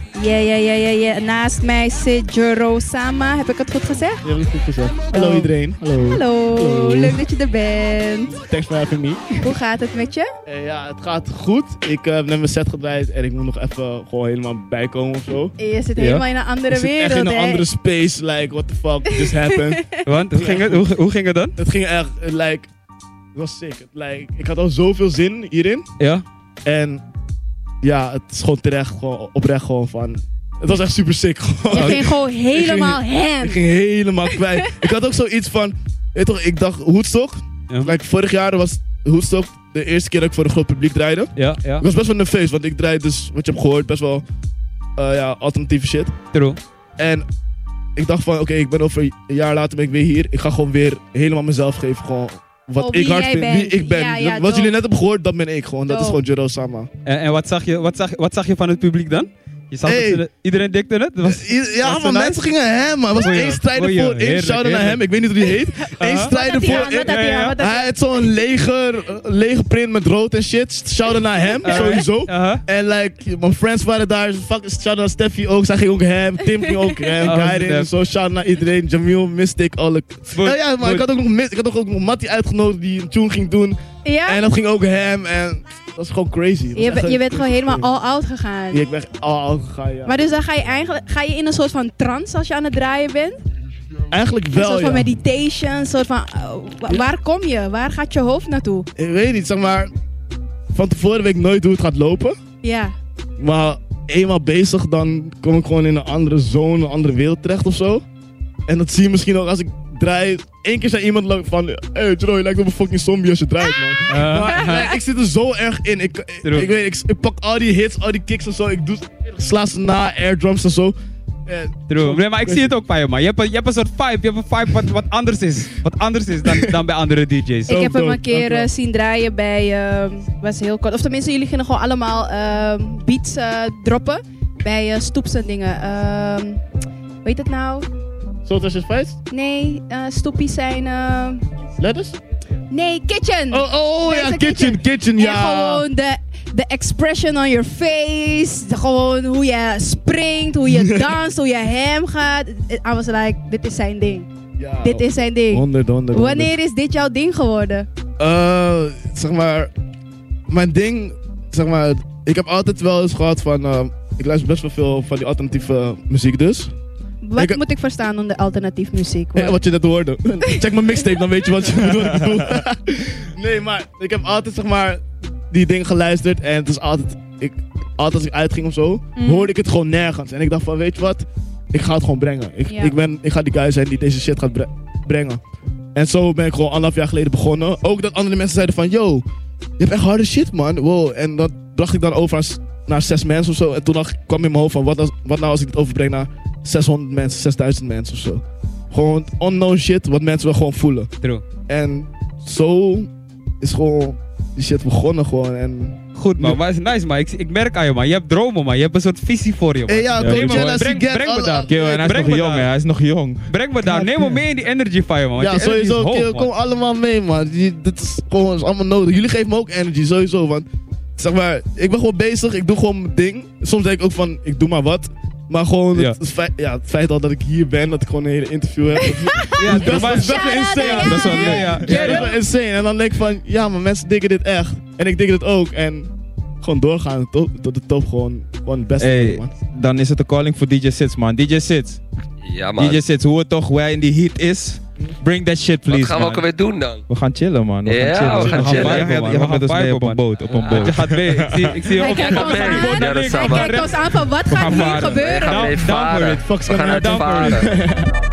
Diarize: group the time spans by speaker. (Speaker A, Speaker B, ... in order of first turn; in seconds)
Speaker A: 0.2-4.3, 5.1-8.3, 9.4-10.3, 15.6-17.7, 19.1-20.0, 31.7-33.6, 34.3-34.6, 52.8-54.8, 55.9-56.2, 65.8-68.0, 71.7-72.0, 76.6-77.2, 84.0-84.4, 86.8-88.8, 90.0-93.4, 94.5-98.9, 102.6-103.0, 114.5-114.9, 127.7-136.6, 137.2-137.9, 139.3-141.4, 142.7-154.3, 154.8-157.9, 167.2-169.6, 179.2-179.5, 182.7-182.9, 229.0-232.4, 252.0-255.7
Speaker B: 4.2-7.2, 8.3-9.5, 10.5-15.6, 16.7-20.8, 21.6-22.7, 23.4-25.9, 26.6-27.0, 27.8-44.2, 45.0-46.2, 47.0-47.2, 48.0-56.9, 59.8-60.3, 61.2-87.9, 88.7-90.2, 94.1-95.1, 99.0-99.9, 100.7-102.4, 103.4-108.0, 108.7-121.0, 121.5-122.8, 127.7-128.7, 138.4-139.2, 141.8-142.2, 143.5-145.8, 154.6-156.5, 158.2-159.7, 160.5-166.7, 169.3-185.4, 185.9-189.2, 189.8-201.1, 201.7-203.1, 203.6-206.6, 209.9-212.2, 213.9-214.4, 215.4-239.5, 248.3-248.8, 256.4-258.1
Speaker C: 16.0-16.2, 20.0-21.6, 26.0-26.2, 31.7-32.0, 37.7-38.0, 41.4-41.9, 46.3-46.6, 57.0-62.5, 63.1-65.1, 66.0-67.6, 71.6-72.6, 77.2-77.9, 80.3-81.1, 114.1-114.9, 116.4-116.7, 121.9-127.8, 206.2-212.7, 213.5-216.5, 225.9-226.2, 229.6-232.3, 248.3-254.0, 254.5-256.5, 257.2-257.6
Speaker D: 210.2-210.9, 211.7-213.5, 229.6-231.9, 239.0-242.0, 242.8-246.4, 247.1-252.7, 254.5-255.3, 256.8-257.7
Speaker E: 242.4-243.0, 245.9-247.0, 247.8-249.1, 250.7-250.9, 252.1-253.8, 255.1-257.7